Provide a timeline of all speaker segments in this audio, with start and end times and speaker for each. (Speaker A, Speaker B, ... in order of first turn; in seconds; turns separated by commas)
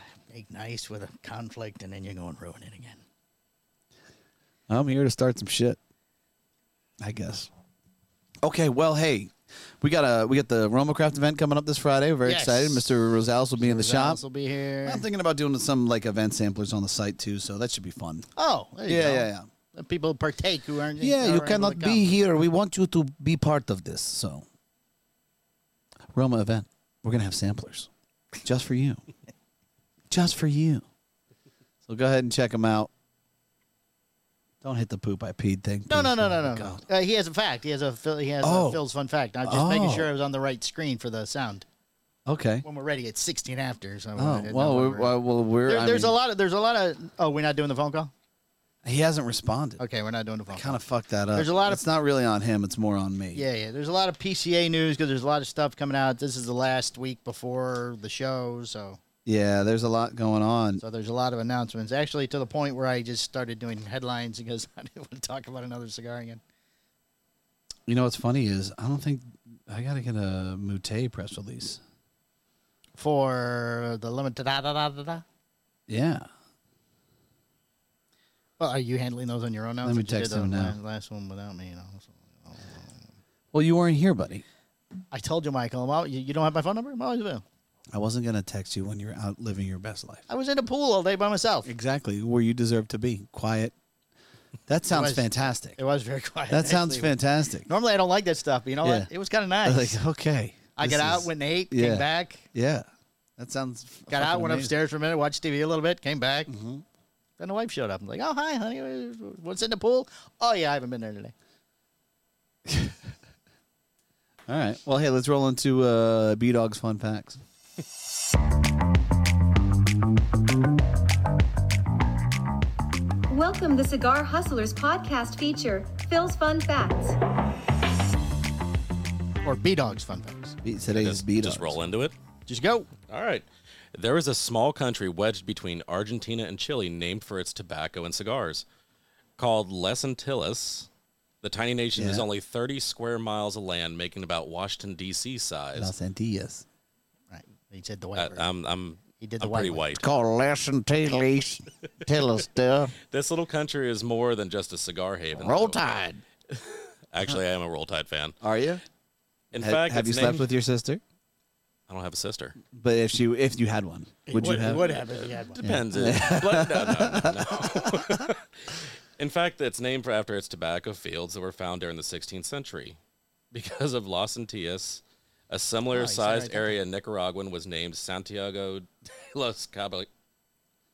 Speaker A: 0.3-3.0, Speaker B: 4.7-5.8, Speaker B: 7.0-7.5, Speaker B: 8.4-14.2, Speaker A: 12.2-12.9, Speaker A: 13.6-15.0, Speaker B: 14.8-18.3, Speaker A: 18.4-22.1, Speaker B: 18.9-19.5, Speaker B: 21.0-24.4, Speaker B: 26.1-27.9, Speaker B: 28.4-29.0, Speaker B: 30.1-30.8, Speaker B: 31.9-32.9, Speaker B: 34.6-36.8, Speaker A: 35.9-41.6, Speaker B: 38.4-38.8, Speaker B: 39.4-40.1, Speaker B: 42.2-42.6, Speaker A: 42.6-48.1, Speaker B: 44.1-46.1, Speaker B: 48.8-49.8, Speaker A: 49.8-50.8, Speaker B: 50.5-53.5, Speaker A: 51.3-51.8, Speaker A: 53.3-59.0, Speaker B: 59.2-60.8, Speaker A: 60.8-66.4, Speaker B: 67.9-71.8, Speaker A: 73.0-75.2, Speaker B: 75.9-76.3, Speaker A: 78.6-83.0, Speaker B: 79.8-80.8, Speaker B: 83.5-84.4, Speaker A: 85.1-87.4, Speaker B: 87.9-90.2, Speaker A: 90.3-91.7, Speaker B: 91.7-93.7, Speaker B: 94.7-95.8, Speaker A: 94.9-97.1, Speaker B: 96.5-97.7, Speaker A: 97.7-100.0, Speaker B: 98.8-99.1, Speaker B: 99.6-104.7, Speaker A: 100.8-102.5, Speaker A: 104.1-106.5, Speaker B: 106.5-106.8, Speaker A: 107.4-111.3, Speaker B: 112.7-113.0, Speaker B: 114.5-117.4, Speaker C: 123.3-127.2, Speaker A: 129.4-130.6, Speaker B: 130.6-131.8, Speaker D: 130.9-132.1, Speaker A: 132.5-132.9, Speaker D: 133.1-138.6, Speaker D: 139.4-140.9, Speaker D: 141.4-145.9, Speaker B: 141.9-142.2, Speaker B: 145.7-146.6, Speaker A: 147.3-148.5, Speaker D: 148.2-150.1, Speaker A: 149.2-149.8, Speaker B: 149.9-152.9, Speaker D: 153.1-155.8, Speaker B: 155.3-156.2, Speaker D: 156.5-158.3, Speaker B: 158.4-158.8, Speaker D: 159.5-160.5, Speaker B: 159.6-161.0, Speaker D: 161.9-162.6, Speaker B: 162.7-164.9, Speaker A: 164.3-165.6, Speaker D: 165.5-173.0, Speaker B: 165.6-168.3, Speaker D: 173.5-180.1, Speaker A: 175.9-176.8